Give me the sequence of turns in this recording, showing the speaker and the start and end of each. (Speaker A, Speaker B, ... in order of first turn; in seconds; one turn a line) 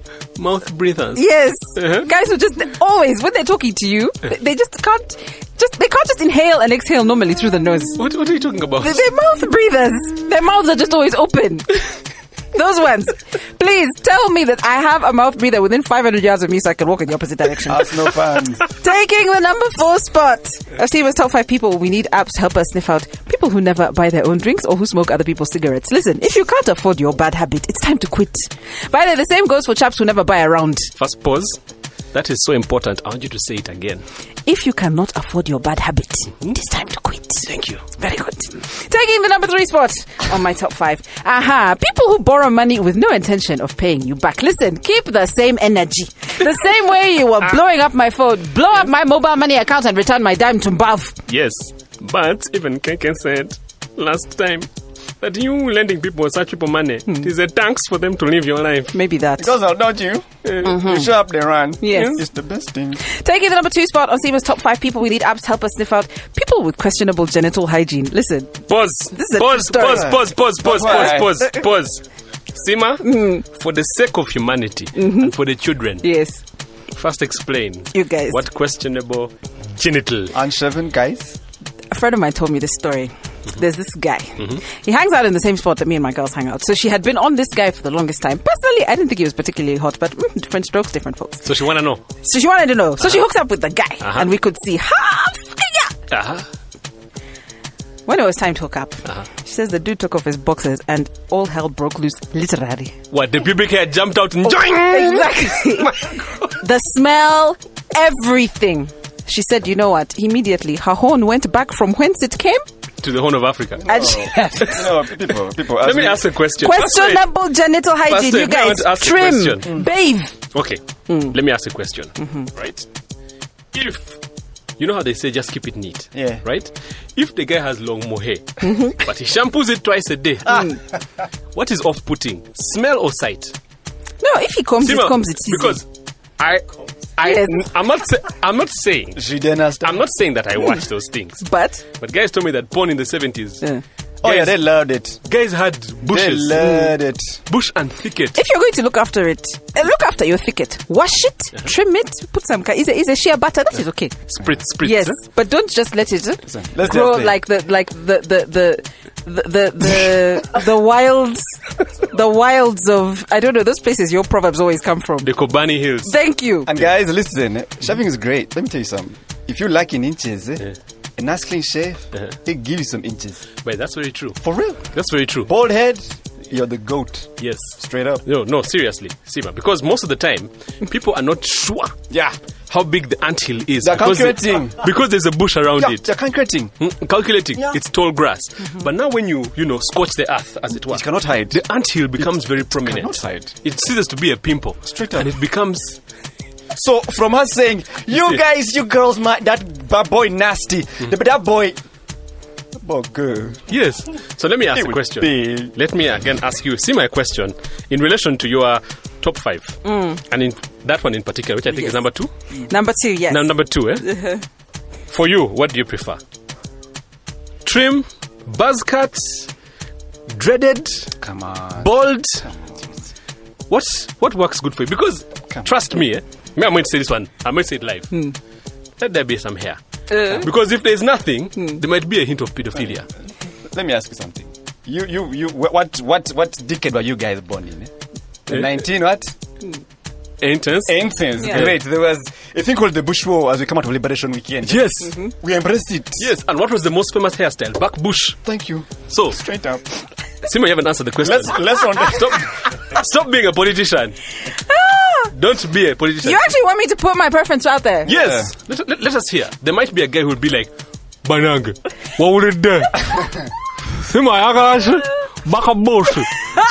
Speaker A: 0.4-2.1
Speaker B: 1.1-8.0
Speaker A: 8.0-9.0
Speaker B: 8.8-18.0
Speaker C: 17.6-18.6
Speaker B: 18.7-30.9
Speaker A: 31.0-31.6
Speaker A: 32.1-34.0
Speaker B: 34.5-51.1
Speaker A: 37.4-37.8
Speaker A: 51.3-54.7
Speaker A: 55.2-58.9
Speaker B: 58.9-59.5
Speaker C: 59.4-63.0
Speaker A: 60.4-60.8
Speaker B: 60.6-61.1
Speaker B: 61.8-62.2
Speaker A: 61.9-62.2
Speaker B: 63.0-70.2
Speaker A: 68.7-72.0
Speaker C: 69.8-71.5
Speaker A: 72.5-76.1
Speaker B: 73.0-73.4
Speaker B: 75.0-75.3
Speaker B: 76.0-76.4
Speaker A: 76.9-80.3
Speaker B: 77.9-78.4
Speaker C: 80.3-81.4
Speaker B: 81.9-91.5
Speaker A: 91.4-92.0
Speaker B: 92.2-95.9
Speaker A: 94.0-94.3
Speaker A: 96.1-96.5
Speaker B: 98.0-102.9
Speaker A: 103.1-106.2
Speaker B: 104.7-112.6
Speaker A: 113.0-114.9
Speaker C: 113.8-116.3
Speaker B: 113.9-114.9
Speaker A: 115.7-117.3
Speaker B: 116.6-120.3
Speaker A: 118.1-119.8
Speaker A: 120.5-122.9
Speaker B: 121.1-121.3
Speaker B: 122.2-122.5
Speaker A: 123.7-124.2
Speaker A: 124.8-130.8
Speaker C: 126.1-126.4
Speaker B: 128.6-128.9
Speaker A: 131.5-133.5
Speaker B: 134.2-135.8
Speaker A: 134.8-135.8
Speaker A: 136.4-139.2
Speaker B: 137.2-137.6
Speaker C: 139.1-140.0
Speaker A: 139.8-143.6
Speaker B: 141.4-141.8
Speaker C: 144.2-145.2
Speaker A: 144.2-144.6
Speaker A: 145.2-146.8
Speaker C: 146.1-147.4
Speaker B: 146.6-146.9
Speaker A: 147.5-148.4
Speaker B: 148.3-154.2
Speaker A: 154.3-155.2
Speaker B: 154.8-165.3
Speaker C: 156.5-157.4
Speaker A: 165.2-166.1
Speaker B: 166.0-166.7
Speaker C: 166.6-170.7
Speaker C: 171.2-173.4
Speaker A: 173.6-174.4
Speaker C: 174.4-174.8
Speaker A: 174.9-175.5
Speaker C: 175.4-178.2
Speaker A: 177.4-182.0
Speaker C: 182.1-182.3
Speaker A: 182.7-186.1
Speaker C: 183.8-184.9
Speaker C: 185.8-186.7
Speaker A: 186.8-196.0
Speaker C: 190.9-191.6
Speaker C: 192.2-193.5
Speaker C: 194.8-195.3
Speaker C: 196.7-201.8
Speaker C: 202.8-203.7
Speaker A: 203.7-212.3
Speaker C: 204.7-205.7
Speaker B: 209.8-210.2
Speaker B: 212.7-214.4
Speaker A: 213.3-214.1
Speaker A: 215.1-216.2
Speaker A: 217.6-219.5
Speaker A: 220.3-221.1
Speaker C: 221.2-223.0
Speaker A: 221.8-222.5
Speaker A: 223.7-228.1
Speaker A: 229.0-233.1
Speaker B: 230.1-230.4
Speaker C: 233.7-237.9
Speaker C: 238.5-239.3
Speaker A: 238.5-238.8
Speaker A: 240.4-241.8
Speaker C: 240.9-246.3
Speaker A: 244.7-245.3
Speaker A: 246.2-248.4
Speaker C: 248.4-250.0
Speaker A: 249.1-249.4
Speaker A: 250.4-254.2
Speaker C: 251.2-252.4
Speaker B: 254.6-255.3
Speaker A: 255.3-256.4
Speaker B: 256.2-258.1
Speaker C: 258.0-258.5
Speaker A: 258.1-260.7
Speaker A: 261.2-263.2
Speaker A: 263.9-266.3